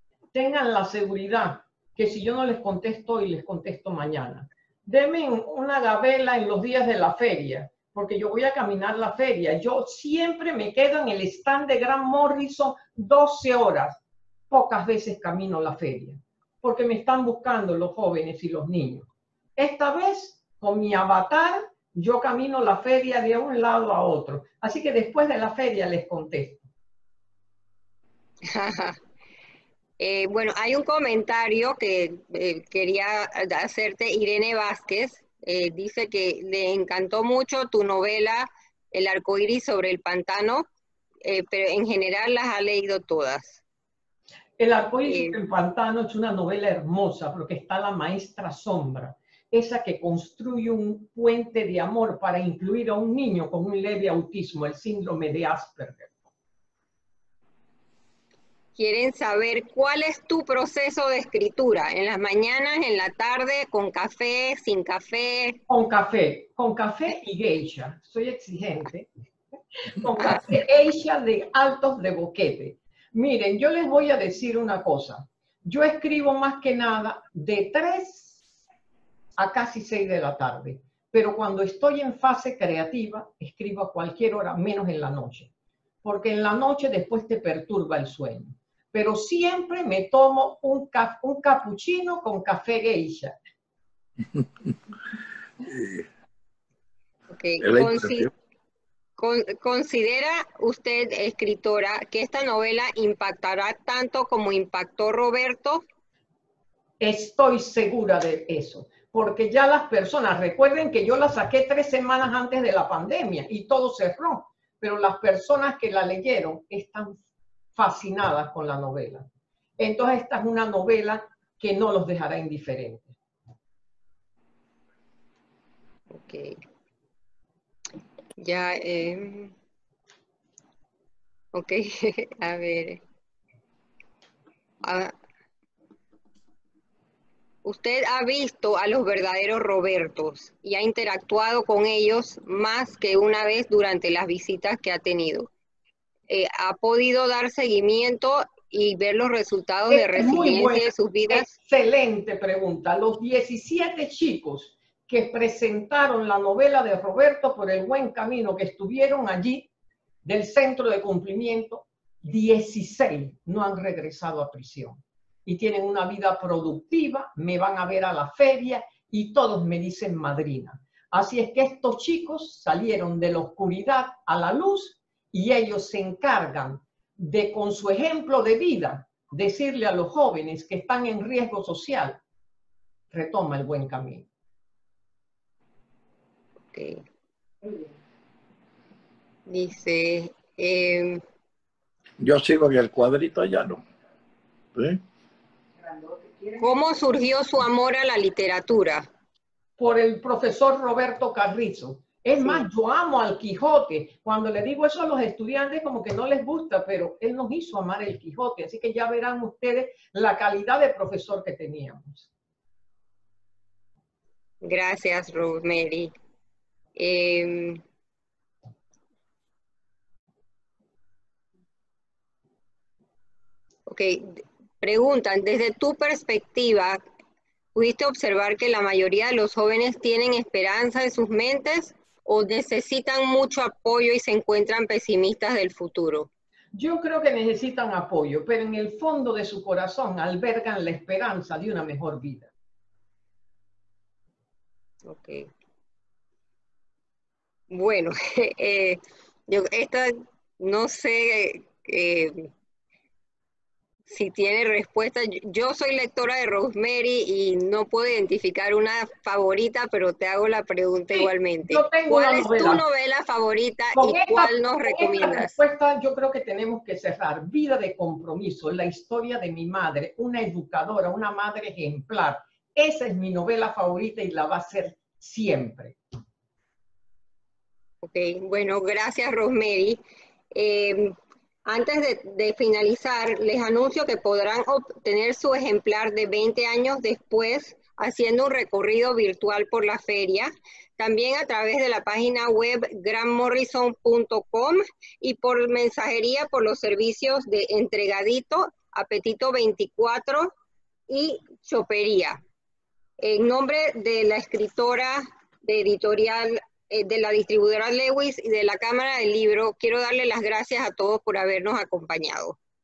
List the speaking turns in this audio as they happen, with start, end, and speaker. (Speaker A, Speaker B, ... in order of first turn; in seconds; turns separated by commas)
Speaker A: 0.3-26.7, Speaker B: 28.4-29.0, Speaker B: 30.0-40.7, Speaker B: 41.2-43.6, Speaker A: 44.6-56.2, Speaker B: 45.0-45.4, Speaker B: 58.8-65.6, Speaker A: 65.7-69.1, Speaker A: 69.9-78.4, Speaker A: 79.4-85.5, Speaker A: 86.0-93.4, Speaker C: 95.6-96.0, Speaker B: 97.3-98.3, Speaker C: 97.6-98.3, Speaker B: 99.2-105.8, Speaker A: 107.0-117.2, Speaker A: 117.7-123.1, Speaker B: 126.1-126.6, Speaker B: 128.4-129.5, Speaker B: 131.5-133.0, Speaker B: 134.8-135.1, Speaker B: 137.6-145.5, Speaker B: 146.3-151.5, Speaker A: 149.9-159.7, Speaker A: 160.2-182.2, Speaker A: 183.1-184.2, Speaker B: 186.7-187.0, Speaker B: 189.5-191.2, Speaker C: 192.2-193.8, Speaker C: 194.7-195.0, Speaker B: 196.6-199.1, Speaker A: 199.8-212.3, Speaker B: 214.6-216.1, Speaker B: 216.9-217.8, Speaker B: 223.9-227.0, Speaker B: 227.7-236.3, Speaker A: 236.7-242.5, Speaker B: 245.0-245.5, Speaker B: 247.7-252.5, Speaker B: 254.1-265.6, Speaker A: 261.1-262.8, Speaker A: 263.9-276.0, Speaker B: 278.0-280.0, Speaker B: 280.5-300.5, Speaker B: 301.1-302.4, Speaker B: 303.2-312.6